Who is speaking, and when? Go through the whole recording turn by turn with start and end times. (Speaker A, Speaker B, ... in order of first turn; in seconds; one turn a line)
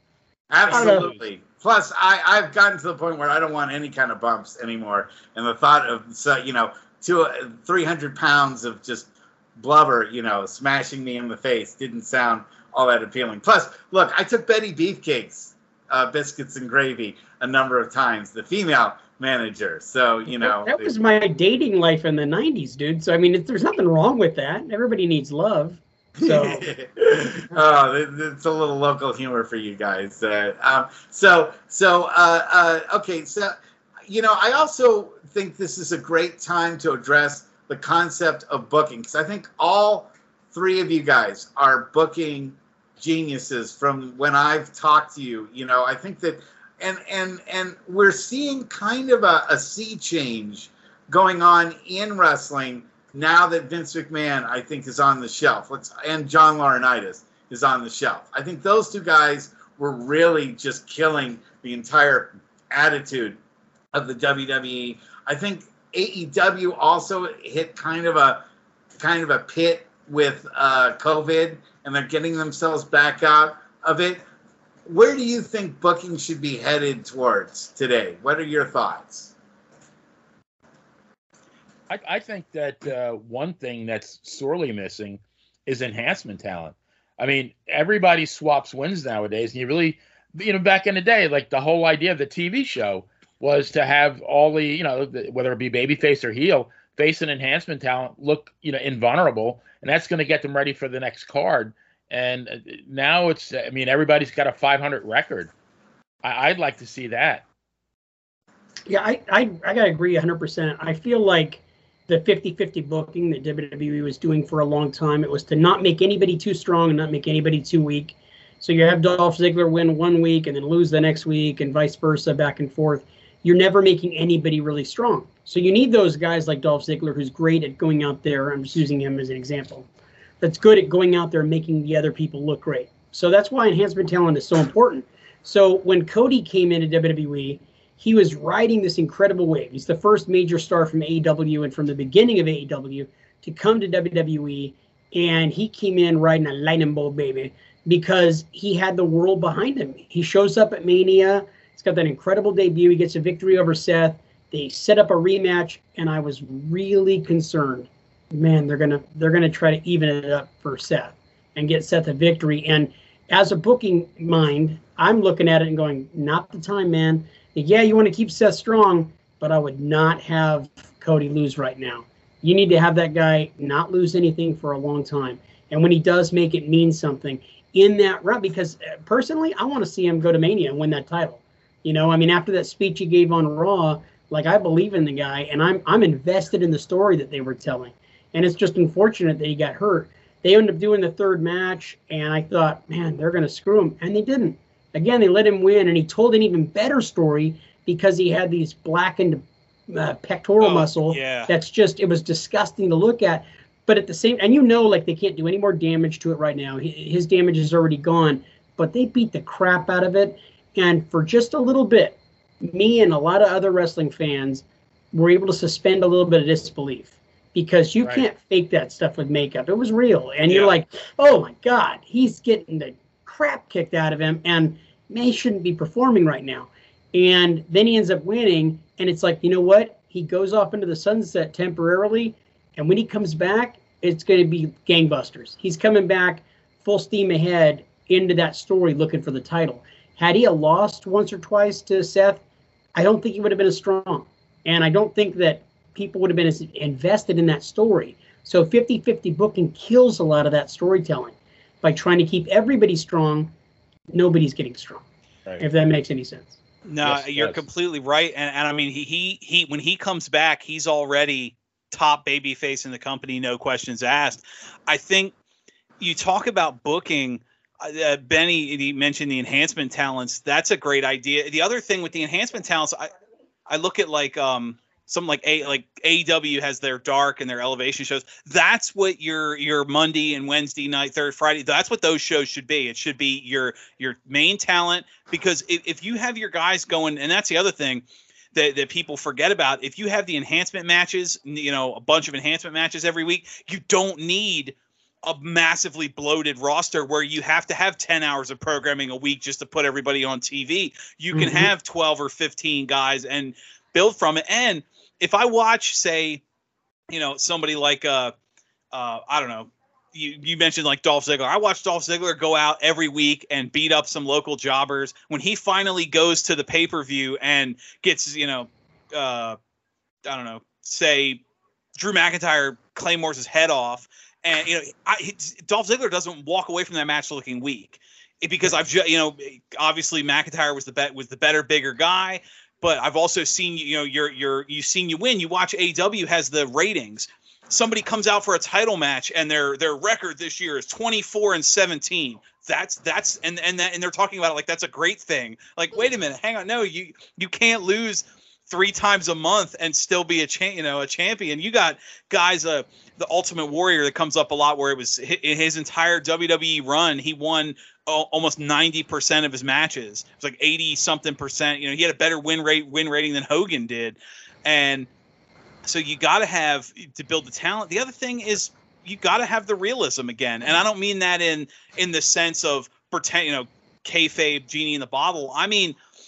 Speaker A: 0.5-20.9
Speaker B: 0.7-1.1
Speaker C: 0.7-1.3
Speaker B: 20.3-26.6
Speaker A: 26.2-33.5
Speaker A: 34.1-63.4
Speaker A: 63.9-68.4
Speaker A: 69.0-74.2
Speaker A: 74.8-79.3
Speaker C: 81.9-105.5
Speaker C: 106.2-107.4
Speaker B: 108.9-129.9
Speaker B: 130.4-242.4
Speaker D: 200.6-201.5
Speaker B: 242.9-253.5
Speaker B: 254.1-255.0
Speaker B: 255.6-256.6
Speaker D: 256.9-265.3
Speaker C: 257.0-257.6
Speaker D: 266.0-273.1
Speaker D: 273.7-306.4
Speaker B: 301.3-301.7
Speaker D: 307.1-308.3
Speaker D: 308.9-319.6
Speaker D: 320.2-321.4
Speaker D: 321.9-365.1
Speaker D: 365.8-376.0